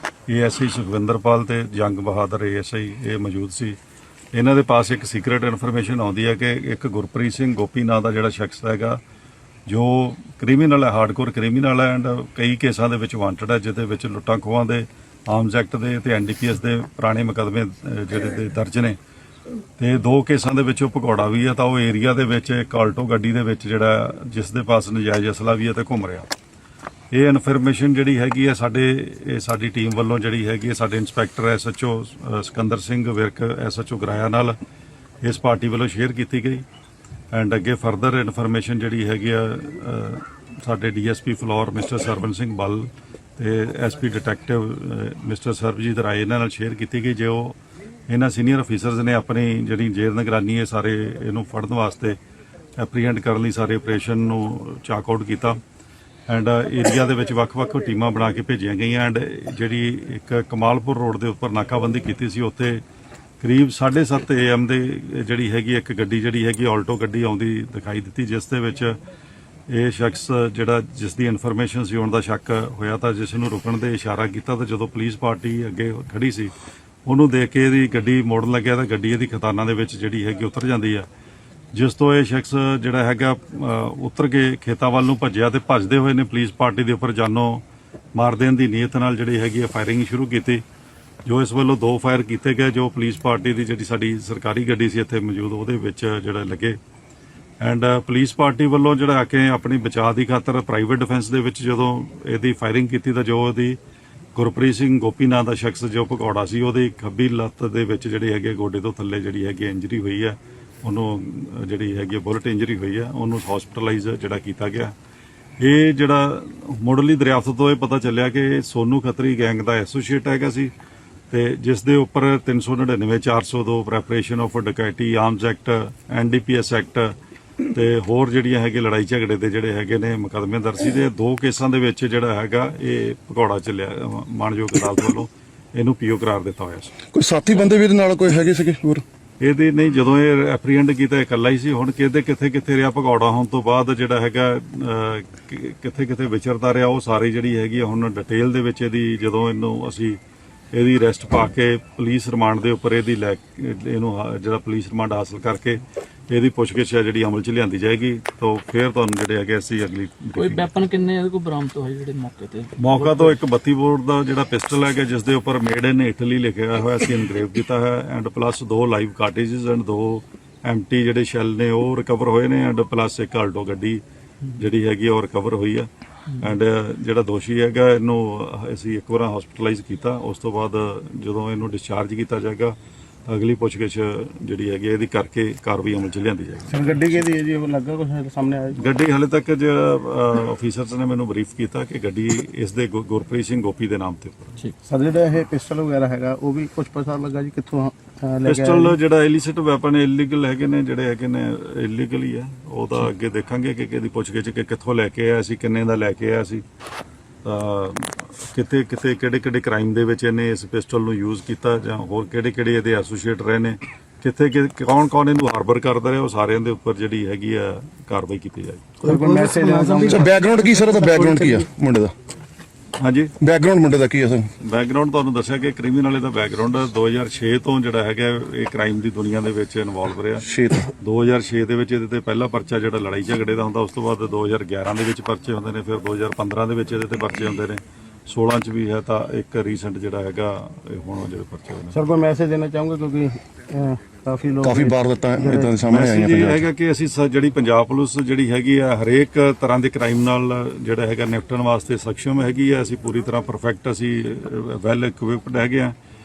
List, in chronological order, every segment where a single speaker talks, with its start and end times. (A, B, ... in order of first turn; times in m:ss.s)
0:00.3-0:03.8 A
0:04.3-0:09.0 A
0:09.7-0:19.0 A
0:19.8-0:26.3 A
0:27.1-0:34.5 A
0:35.2-0:36.6 A
0:37.3-0:47.6 A
0:48.1-0:52.2 A
0:52.8-0:55.6 A
0:56.3-1:02.8 A
1:03.4-1:09.0 A
1:09.7-1:16.5 A
1:17.0-1:21.0 A
1:21.7-1:27.6 A
1:28.2-1:30.6 A
1:31.2-1:36.8 A
1:37.6-1:43.8 A
1:44.3-1:54.9 A
1:55.6-2:00.7 A
2:01.3-2:17.0 A
2:17.1-2:19.0 B
2:19.4-2:30.2 A
2:30.7-2:40.8 A
2:40.3-2:43.4 C
2:42.8-2:54.0 A
2:54.5-3:02.8 A
3:03.3-3:07.2 A
3:06.7-3:08.9 D
3:08.8-3:14.6 A
3:14.8-3:19.0 D
3:18.4-3:26.6 A
3:27.4-3:38.9 A
3:39.0-3:40.3 D
3:39.1-3:41.5 C
3:40.1-3:42.1 B
3:43.0-3:43.4 A
3:43.4-3:44.5 B
3:44.6-3:50.5 A
3:50.4-3:50.9 B
3:51.0-4:02.0 A
4:01.9-4:05.8 D
4:04.6-4:06.6 B
4:05.8-4:15.9 A